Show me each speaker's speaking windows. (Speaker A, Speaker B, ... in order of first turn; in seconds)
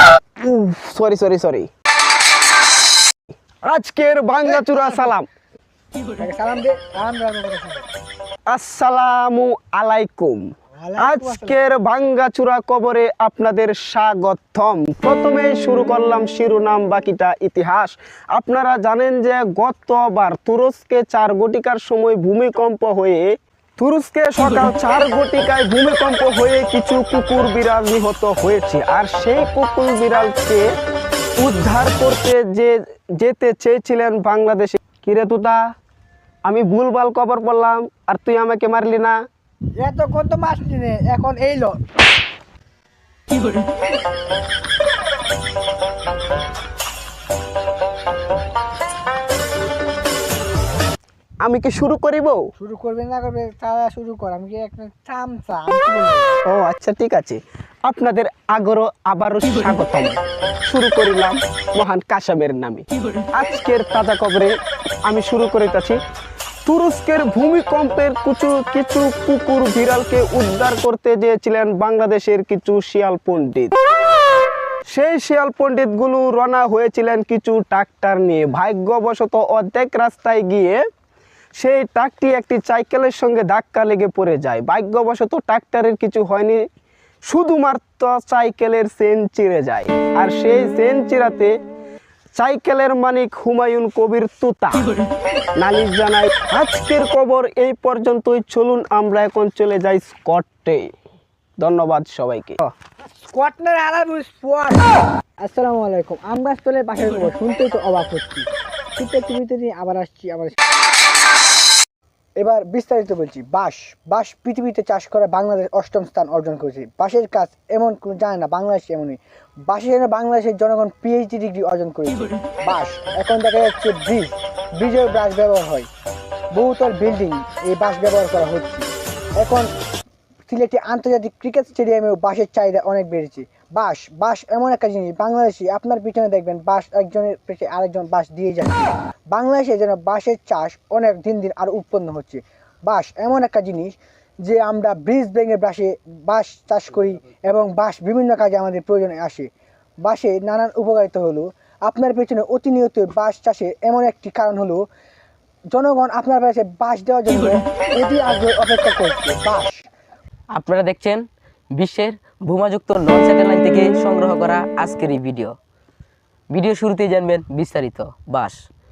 Speaker A: 0.4-1.7, 3.6-5.3, 8.5-23.2, 23.8-30.6, 31.4-35.6, 36.5-39.2, 51.4-52.4, 56.5-64.5, 65.0-66.0, 66.7-73.7, 74.9-80.8, 81.6-86.6, 87.2-91.5, 92.3-94.9, 95.6-100.9, 101.6-102.7
Speaker B: 4.4-5.0, 6.2-7.8, 10.8-11.6, 39.8-41.8, 52.6-56.3, 103.0-104.9, 105.4-110.5, 112.4-125.9, 126.5-128.8, 129.4-129.7, 130.5-149.5, 150.0-154.8, 155.7-159.8
Speaker C: 160.5-161.2, 161.8-165.5, 166.5-168.6